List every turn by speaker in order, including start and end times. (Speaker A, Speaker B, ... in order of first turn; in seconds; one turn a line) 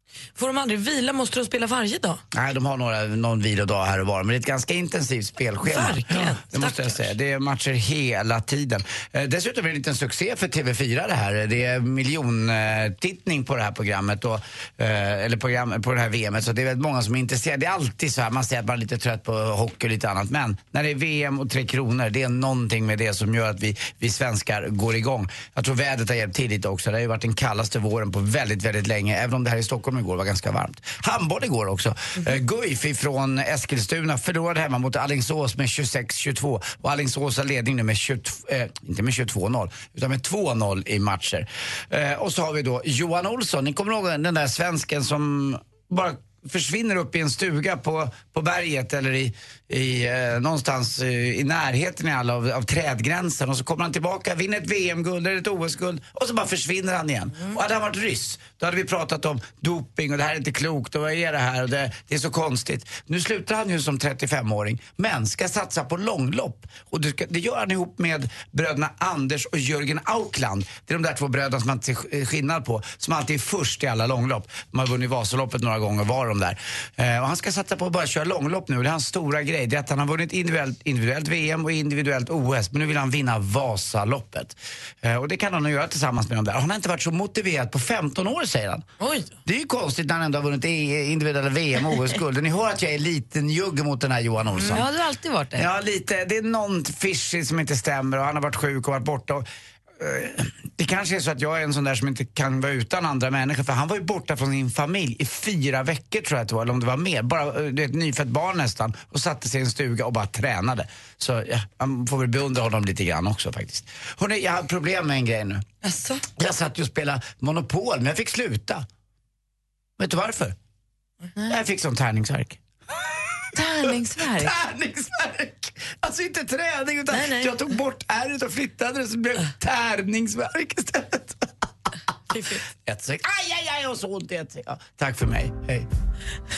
Speaker A: 0.3-2.2
Speaker B: 2.3-88.8
Speaker A: 5.6-7.1
Speaker B: 89.5-94.9
Speaker C: 94.5-95.7
Speaker B: 95.5-99.5
Speaker B: 100.0-115.6
Speaker A: 115.8-116.2
Speaker B: 116.4-118.8
Speaker B: 120.0-120.5
Speaker B: 121.5-122.6
Speaker C: 123.5-124.5
Speaker B: 123.8-131.6
Speaker C: 127.1-127.5
Speaker A: 132.3-132.7
Speaker B: 132.8-135.9